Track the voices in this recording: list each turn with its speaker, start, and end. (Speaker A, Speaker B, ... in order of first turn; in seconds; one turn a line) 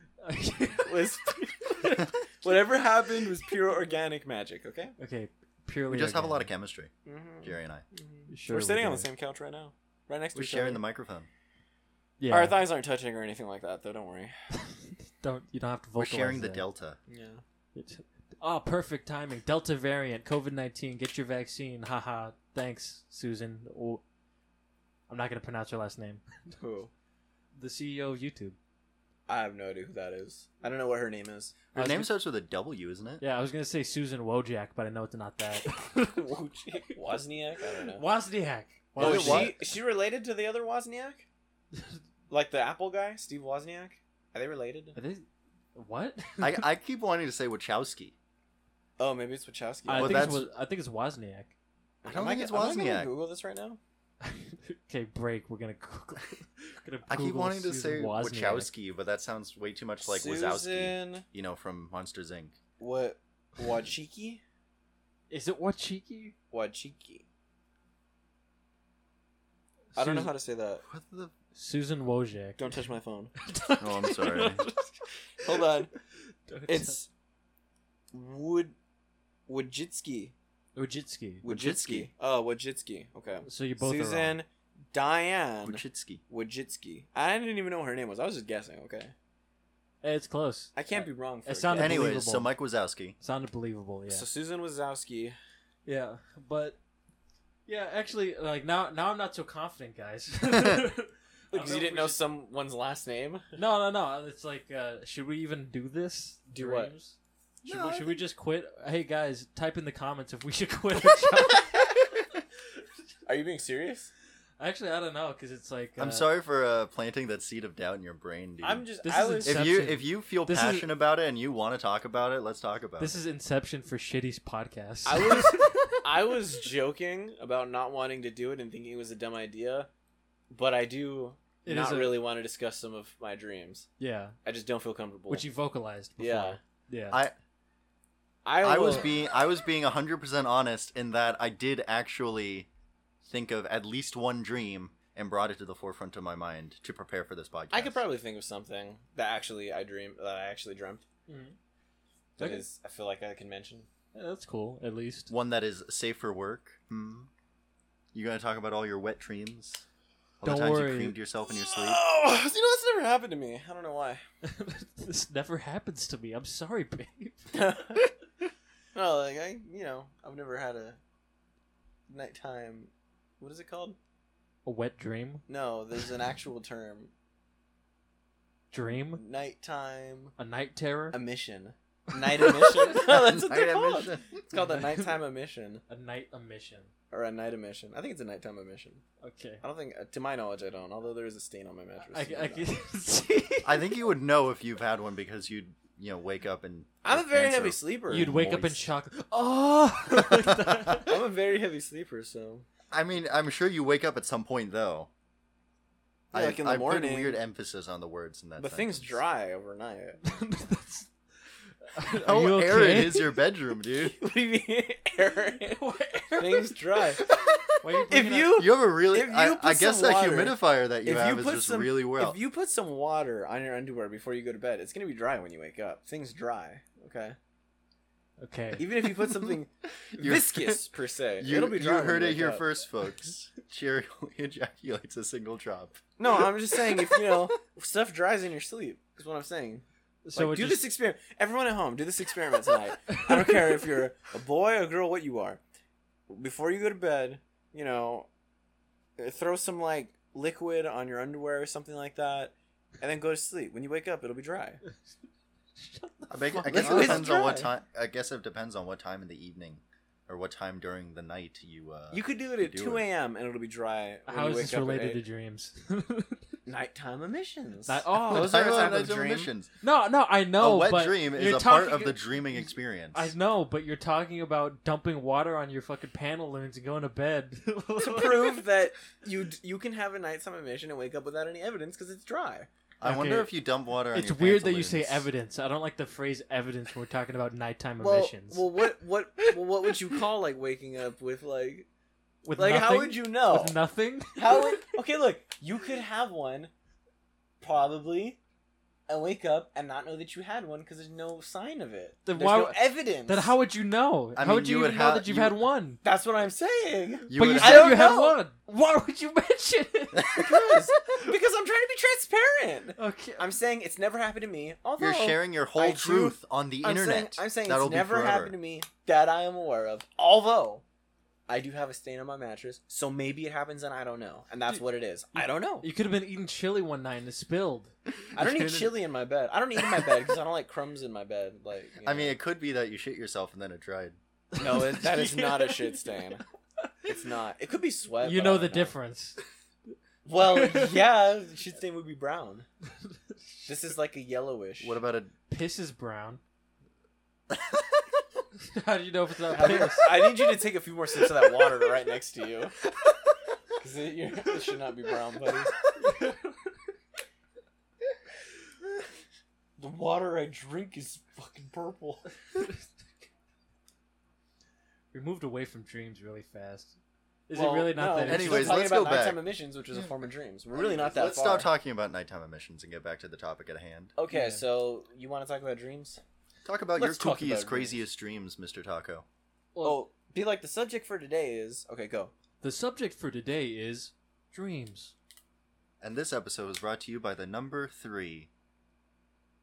Speaker A: 0.2-1.1
Speaker B: 0.8-4.9
Speaker A: 1.7-2.1
Speaker A: 5.0-6.5
Speaker C: 5.9-6.9
Speaker B: 7.0-10.8
Speaker C: 7.4-7.8
Speaker A: 8.3-9.1
Speaker C: 10.3-11.3
Speaker A: 12.2-12.6
Speaker B: 12.3-14.3
Speaker A: 14.5-16.6
Speaker C: 16.0-17.0
Speaker B: 17.1-17.4
Speaker A: 17.7-24.0
Speaker A: 25.1-26.2
Speaker B: 26.6-26.9
Speaker A: 27.6-28.6
Speaker B: 29.3-31.7
Speaker A: 31.7-32.1
Speaker C: 31.7-33.2
Speaker A: 33.2-36.2
Speaker B: 36.0-38.0
Speaker A: 37.9-39.6
Speaker B: 39.0-41.2
Speaker C: 39.0-39.6
Speaker A: 41.7-42.0
Speaker B: 42.3-45.0
Speaker A: 45.0-46.6
Speaker C: 46.4-48.1
Speaker B: 49.0-50.3
Speaker A: 49.9-51.5
Speaker C: 50.0-50.5
Speaker B: 52.0-53.8
Speaker C: 52.0-53.1
Speaker A: 54.2-58.7
Speaker C: 57.1-62.6
Speaker B: 60.0-61.2
Speaker B: 62.8-64.4
Speaker A: 65.3-66.3
Speaker B: 66.5-67.2
Speaker A: 69.9-70.3
Speaker B: 70.0-70.8
Speaker C: 70.8-71.3
Speaker A: 71.5-72.8
Speaker B: 72.6-73.3
Speaker A: 73.4-74.9
Speaker C: 73.8-74.6
Speaker B: 75.4-75.9
Speaker A: 76.5-77.0
Speaker B: 76.7-77.1
Speaker B: 78.1-78.7
Speaker B: 79.5-80.3
Speaker A: 80.7-81.4
Speaker B: 81.4-89.1
Speaker C: 81.4-82.1
Speaker A: 83.4-84.4
Speaker C: 85.6-86.2
Speaker A: 90.0-92.5
Speaker B: 90.8-92.1
Speaker C: 91.8-93.2
Speaker A: 93.2-94.2
Speaker B: 94.1-95.4
Speaker A: 95.8-96.8
Speaker A: 97.7-102.2
Speaker B: 101.5-103.5
Speaker A: 103.5-107.1
Speaker B: 106.5-106.9
Speaker C: 107.6-108.2
Speaker A: 107.7-111.9
Speaker B: 113.3-114.1
Speaker A: 114.6-116.3
Speaker C: 116.0-118.8
Speaker B: 118.6-119.7
Speaker A: 119.0-120.9
Speaker C: 119.4-123.2
Speaker A: 123.0-126.1
Speaker B: 125.0-129.9
Speaker B: 130.5-133.9
Speaker A: 131.6-132.2
Speaker A: 134.0-134.3
Speaker B: 134.4-135.4
Speaker A: 135.3-137.2
Speaker B: 136.2-136.6
Speaker B: 138.4-139.1
Speaker C: 138.6-142.7
Speaker C: 143.2-148.0
Speaker B: 147.7-151.0
Speaker A: 151.3-151.6
Speaker A: 152.4-152.6
Speaker B: 152.4-153.9
Speaker A: 154.1-155.3
Speaker C: 155.3-157.3
Speaker C: 158.1-159.8
Speaker C: 160.4-162.0
Speaker A: 160.4-161.2
Speaker B: 161.4-164.2
Speaker A: 164.4-168.1
Speaker B: 167.5-168.0
Speaker B: 168.9-171.0
Speaker B: 172.1-174.0
Speaker A: 174.6-175.4
Speaker B: 175.5-177.1
Speaker A: 178.7-179.2
Speaker B: 179.2-180.3
Speaker A: 180.4-181.2
Speaker B: 181.1-185.8
Speaker A: 182.3-182.8
Speaker C: 183.1-184.4
Speaker A: 184.6-185.1
Speaker A: 185.9-186.9
Speaker B: 187.1-189.0
Speaker A: 189.2-189.6
Speaker B: 189.6-192.7
Speaker A: 192.0-193.9
Speaker C: 193.6-198.8
Speaker B: 197.0-198.4
Speaker A: 198.1-201.2
Speaker C: 200.3-200.8
Speaker B: 201.0-202.7
Speaker C: 202.9-205.1
Speaker C: 206.3-209.2
Speaker B: 206.3-207.4
Speaker B: 208.6-210.2
Speaker A: 210.2-211.1
Speaker A: 211.8-213.4
Speaker C: 212.2-214.2
Speaker B: 214.0-215.8
Speaker A: 215.6-217.2
Speaker B: 216.3-227.3
Speaker A: 217.8-218.6
Speaker C: 218.5-222.4
Speaker A: 228.4-228.9
Speaker B: 228.8-232.6
Speaker C: 230.1-230.9
Speaker C: 231.4-236.0
Speaker B: 236.2-239.8
Speaker C: 236.9-237.4
Speaker A: 240.2-240.8
Speaker B: 240.3-245.6
Speaker B: 246.3-248.3
Speaker B: 249.2-254.8
Speaker A: 255.8-257.5
Speaker C: 256.3-263.0
Speaker B: 256.6-257.7
Speaker B: 262.1-265.2
Speaker A: 264.3-266.4
Speaker B: 266.6-269.5
Speaker A: 267.9-269.1
Speaker C: 268.3-269.7
Speaker A: 269.8-278.7
Speaker C: 270.6-273.3
Speaker B: 278.0-282.7
Speaker C: 283.0-285.3
Speaker A: 283.0-283.5
Speaker A: 284.1-288.6
Speaker B: 288.0-291.9
Speaker A: 292.4-294.9
Speaker B: 292.6-293.8
Speaker B: 294.4-296.7
Speaker B: 297.6-298.4
Speaker B: 299.1-303.5
Speaker A: 302.2-306.0
Speaker C: 304.4-305.6
Speaker B: 306.0-308.4
Speaker C: 307.3-308.1
Speaker A: 307.3-311.3
Speaker C: 310.1-310.5
Speaker B: 310.3-320.8
Speaker A: 313.0-313.5
Speaker C: 315.0-318.5
Speaker B: 321.5-325.9
Speaker A: 325.3-327.9
Speaker C: 328.3-328.9
Speaker B: 328.3-332.4
Speaker C: 332.0-334.2
Speaker A: 334.5-336.0
Speaker B: 334.6-336.4
Speaker B: 337.1-338.9
Speaker A: 338.2-339.4
Speaker B: 340.2-342.6
Speaker A: 340.4-340.9
Speaker A: 343.1-343.6
Speaker B: 343.6-345.0
Speaker C: 344.8-345.3
Speaker A: 345.5-346.4
Speaker C: 347.5-347.8
Speaker A: 348.6-350.5
Speaker B: 349.5-352.8
Speaker B: 353.8-355.8
Speaker A: 356.0-356.6
Speaker B: 359.8-362.3
Speaker A: 365.1-366.9
Speaker A: 367.5-368.9
Speaker B: 367.5-371.7
Speaker C: 368.2-369.4
Speaker C: 370.7-374.1
Speaker B: 374.1-376.2
Speaker A: 374.3-374.6
Speaker C: 376.6-379.2
Speaker B: 376.9-378.0
Speaker A: 379.7-380.0
Speaker B: 379.8-382.3
Speaker A: 382.6-385.1
Speaker C: 386.0-388.5